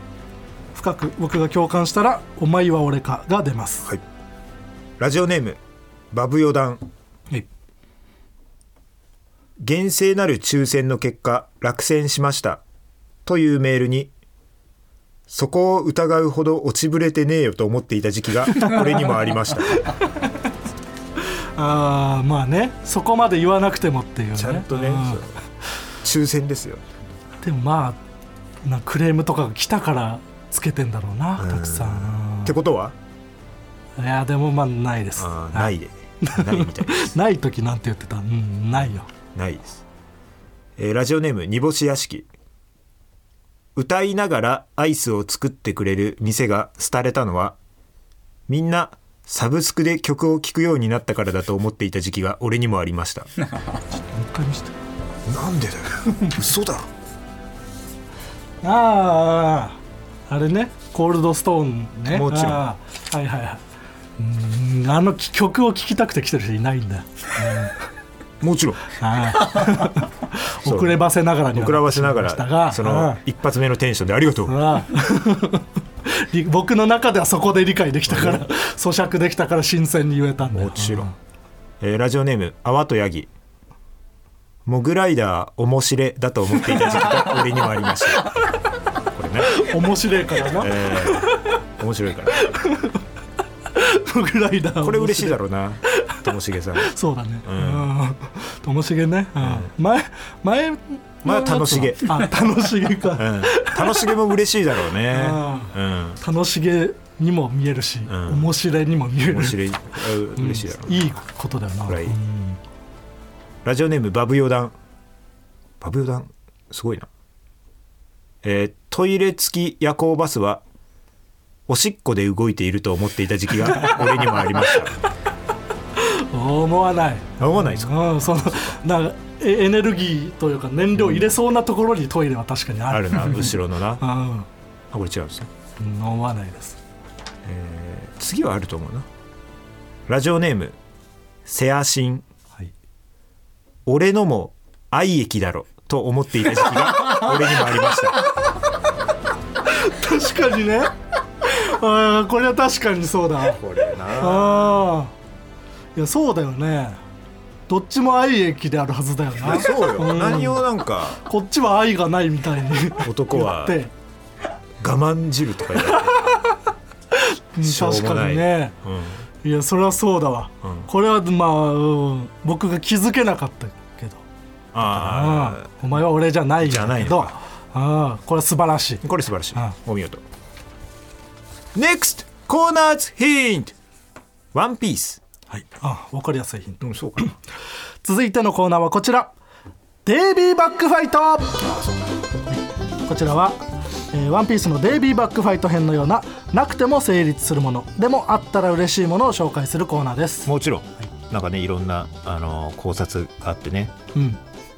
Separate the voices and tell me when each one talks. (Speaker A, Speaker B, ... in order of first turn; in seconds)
Speaker A: 0.7-3.9, 19.8-20.3, 21.2-25.2, 27.4-28.0, 28.6-32.5, 34.0-39.1, 54.1-54.7, 58.6-63.6, 64.2-67.8, 69.0-73.2, 74.5-81.1, 89.5-91.5, 92.4-93.0, 93.7-96.2, 96.8-104.2, 105.1-109.6, 110.3-112.6, 126.0-134.5, 135.8-136.8, 149.7-153.6, 154.1-155.1, 155.9-157.0, 157.7-160.7, 161.2-163.9, 165.9-166.6, 167.1-168.7, 169.4-174.2, 174.9-179.0, 185.5-187.3, 188.0-189.3, 190.1-191.7, 192.5-193.6, 194.1-200.5, 204.1-204.4
Speaker B: 5.0-5.6, 6.1-6.8, 9.6-12.6, 13.2-14.1, 15.3-19.9, 24.3-25.4, 26.0-26.8, 31.4-33.0, 35.2-37.1, 38.8-39.8, 40.8-42.3, 43.8-47.6, 48.5-53.3, 55.2-56.9, 62.1-62.7, 68.4-68.9, 70.6-74.6, 78.1-78.5, 80.5-81.1, 81.8-83.3, 84.7-88.3, 89.1-89.7, 90.5-92.4, 94.8-97.9, 99.4-99.7, 101.2-102.2, 103.1-106.2, 108.1-108.5, 109.2-111.1, 111.8-112.2, 113.6-114.7, 115.8-117.1, 118.4-120.6, 121.7-125.0, 127.4-128.7, 131.0-131.2, 132.9-134.0, 134.9-135.5, 137.4-139.1, 140.1-140.8, 141.4-142.2, 143.8-148.2, 153.4-154.8, 159.4-161.2, 163.0-163.8, 164.8-166.1, 167.6-169.2, 170.6-170.9, 174.7-175.8, 176.6-177.3, 179.0-180.2, 181.7-183.7, 184.5-185.2, 186.8-187.3, 200.4-203.9